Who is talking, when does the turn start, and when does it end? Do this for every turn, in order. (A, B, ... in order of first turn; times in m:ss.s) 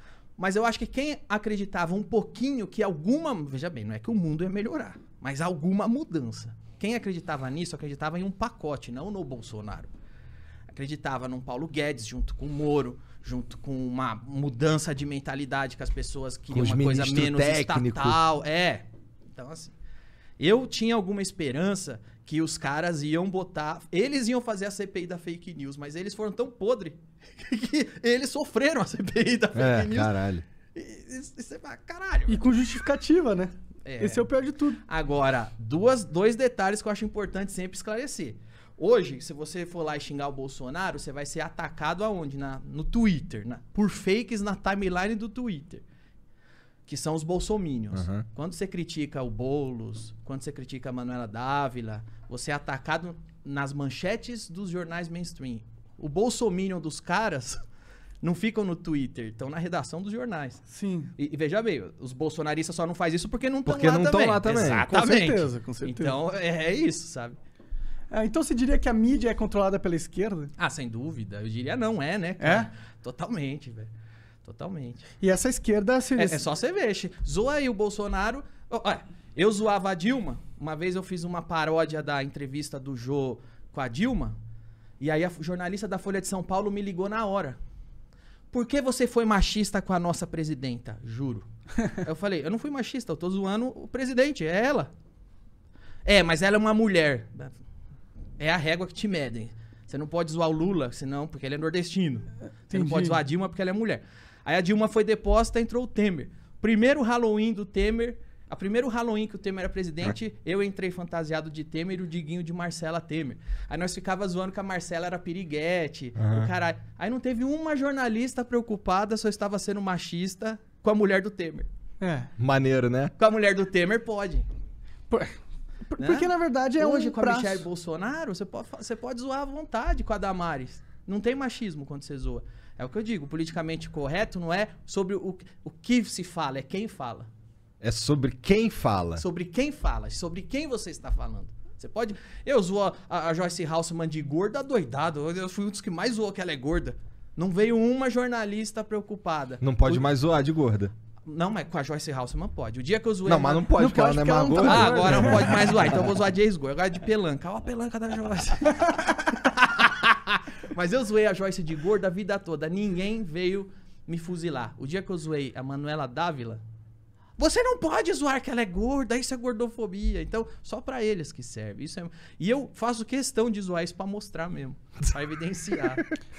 0:00.4-0:09.9 A
0:10.7-0:19.8 A
0:16.5-0:18.2 B
0:20.4-0:30.1 A
0:29.6-0:30.5 B
0:30.7-0:32.4 A
0:32.3-0:34.8 C
0:33.8-0:34.3 A
0:34.8-0:45.8 A
0:46.9-0:57.6 A
0:47.9-0:48.2 B
0:58.2-1:00.6 A
1:00.7-1:01.1 C
1:01.2-1:07.4 A
1:03.7-1:04.9 B
1:04.9-1:06.2 C
1:08.1-1:10.5 C
1:10.6-1:13.9 A
1:12.4-1:12.7 C
1:14.4-1:15.1 A
1:15.2-1:16.4 C
1:16.2-1:24.4 A
1:25.0-1:27.6 A
1:28.5-1:34.9 A
1:36.0-1:37.5 A
1:38.4-2:01.7 A
1:42.7-1:43.2 C
1:56.2-1:56.5 B
2:02.0-2:02.3 C
2:02.4-2:03.1 B
2:03.2-2:04.5 A
2:05.1-2:05.4 C
2:05.9-2:07.6 C
2:06.0-2:17.3 A
2:17.8-2:19.2 B
2:19.2-2:29.6 A
2:29.6-2:30.9 B
2:31.2-2:33.7 A
2:33.3-2:35.9 B
2:33.8-2:35.5 C
2:34.6-2:46.6 A
2:47.4-2:56.1 A